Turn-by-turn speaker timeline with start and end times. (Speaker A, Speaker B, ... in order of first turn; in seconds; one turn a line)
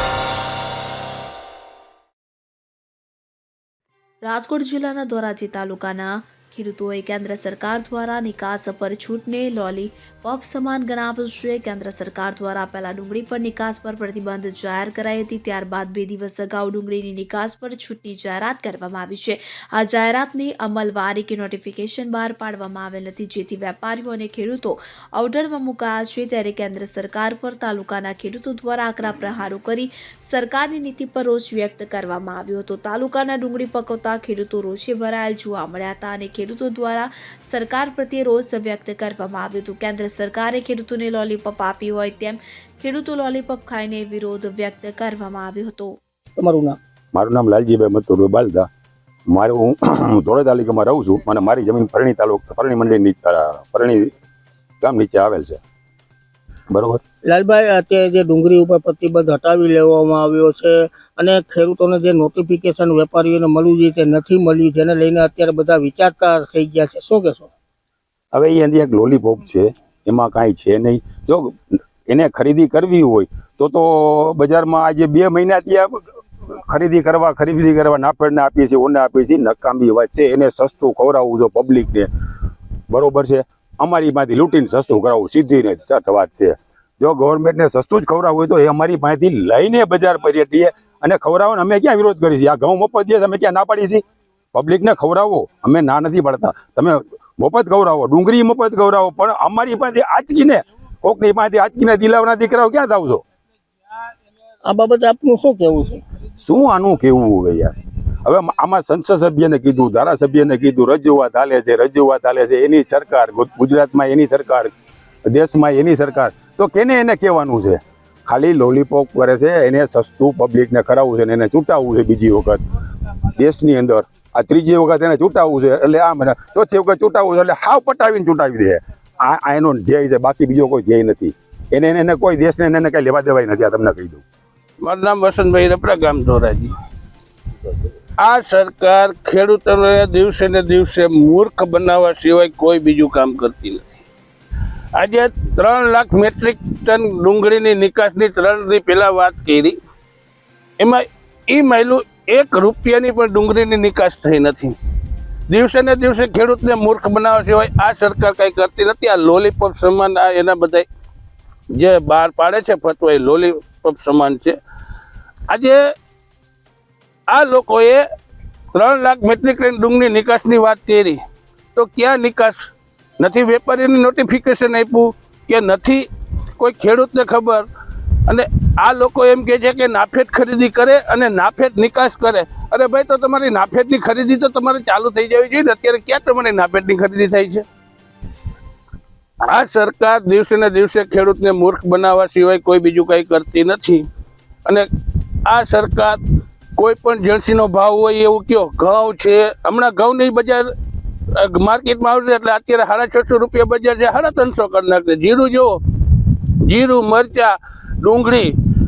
Speaker A: 4.2-46.0
Speaker B: 46.4-46.8
Speaker C: 47.1-48.7
Speaker C: 49.3-54.1
Speaker C: 54.8-55.6
Speaker C: 56.7-57.0
Speaker B: 57.2-67.5
Speaker C: 68.3-76.0
Speaker C: 76.5-82.1
Speaker C: 82.9-103.2
Speaker B: 104.6-106.0
Speaker C: 106.4-107.7
Speaker C: 108.2-114.7
Speaker C: 115.3-122.6
Speaker C: 123.3-134.2
Speaker D: 134.8-136.7
Speaker D: 138.2-144.0
Speaker D: 144.9-149.8
Speaker D: 150.8-154.8
Speaker D: 155.5-160.8
Speaker D: 161.7-164.6
Speaker D: 165.5-165.8
Speaker D: 167.3-168.0
Speaker D: 168.7-171.2
Speaker D: 171.8-176.1
Speaker D: 176.6-177.7
Speaker D: 178.3-187.6
Speaker D: 189.5-194.0
Speaker D: 195.5-196.2
Speaker D: 196.8-200.7
Speaker D: 201.4-208.5